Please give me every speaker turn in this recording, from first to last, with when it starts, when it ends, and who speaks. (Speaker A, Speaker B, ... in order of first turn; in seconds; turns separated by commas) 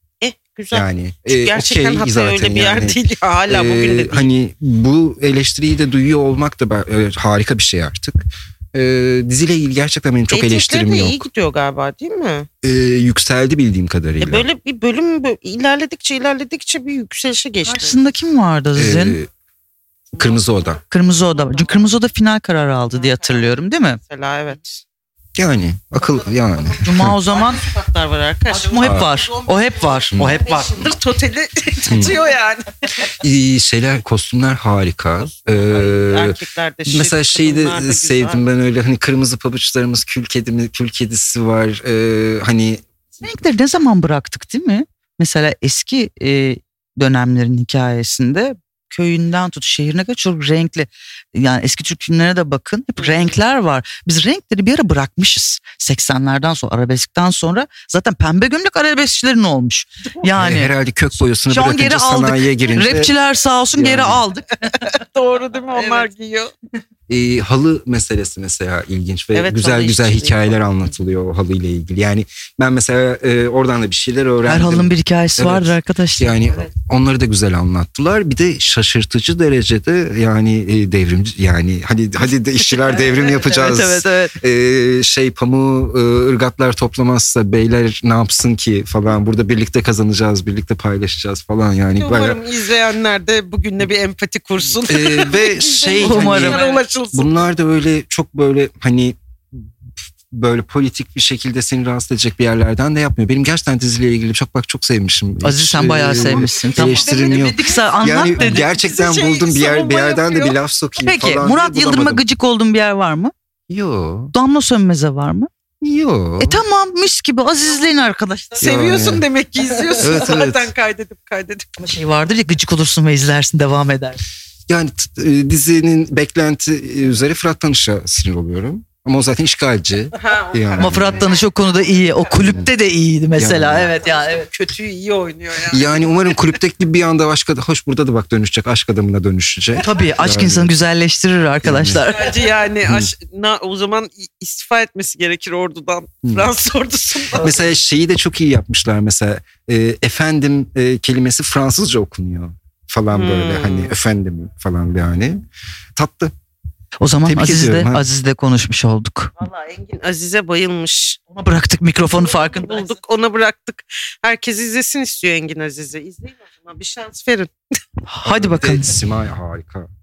Speaker A: 0.2-4.3, Speaker B: 0.7-8.2, Speaker B: 8.7-11.2, Speaker A: 10.3-12.5, Speaker B: 12.6-14.5, Speaker A: 14.2-18.0, Speaker C: 17.7-19.2, Speaker B: 18.8-19.3, Speaker B: 20.2-20.8, Speaker C: 20.9-24.0, Speaker A: 21.5-21.8, Speaker A: 22.9-24.8, Speaker B: 25.4-27.2, Speaker C: 26.8-27.6, Speaker A: 27.3-33.1, Speaker C: 28.5-30.7, Speaker B: 28.8-29.2, Speaker B: 30.1-30.4, Speaker B: 31.9-32.2, Speaker B: 33.1-42.8, Speaker A: 35.2-38.4, Speaker C: 43.2-60.7, Speaker B: 60.3-63.1, Speaker C: 61.2-64.6, Speaker B: 63.7-64.2, Speaker A: 64.7-66.5, Speaker B: 67.1-92.4, Speaker A: 69.3-70.6, Speaker C: 74.4-76.4, Speaker C: 82.9-84.4, Speaker A: 92.0-97.5, Speaker B: 94.9-99.2, Speaker C: 96.0-96.7, Speaker B: 100.3-112.2, Speaker C: 105.4-108.7, Speaker A: 106.0-110.6, Speaker C: 111.0-113.3, Speaker B: 113.7-114.3, Speaker C: 114.3-115.5, Speaker B: 115.8-116.6, Speaker C: 116.4-118.8, Speaker A: 118.6-121.7, Speaker B: 118.6-119.2, Speaker B: 120.0-120.7, Speaker C: 121.8-124.2, Speaker B: 124.7-131.3, Speaker A: 130.2-131.4, Speaker C: 130.8-134.5, Speaker B: 132.4-132.7, Speaker B: 133.4-133.9, Speaker A: 134.0-136.4, Speaker B: 135.7-140.7, Speaker C: 139.8-142.3, Speaker B: 141.6-142.1, Speaker A: 142.1-147.5, Speaker B: 142.8-143.1, Speaker B: 147.3-155.4, Speaker A: 153.1-153.9, Speaker B: 156.0-156.3, Speaker C: 157.0-159.3, Speaker B: 157.2-158.0, Speaker A: 159.4-161.2, Speaker C: 161.3-162.8, Speaker A: 162.1-167.5, Speaker C: 168.1-169.0, Speaker B: 168.2-169.9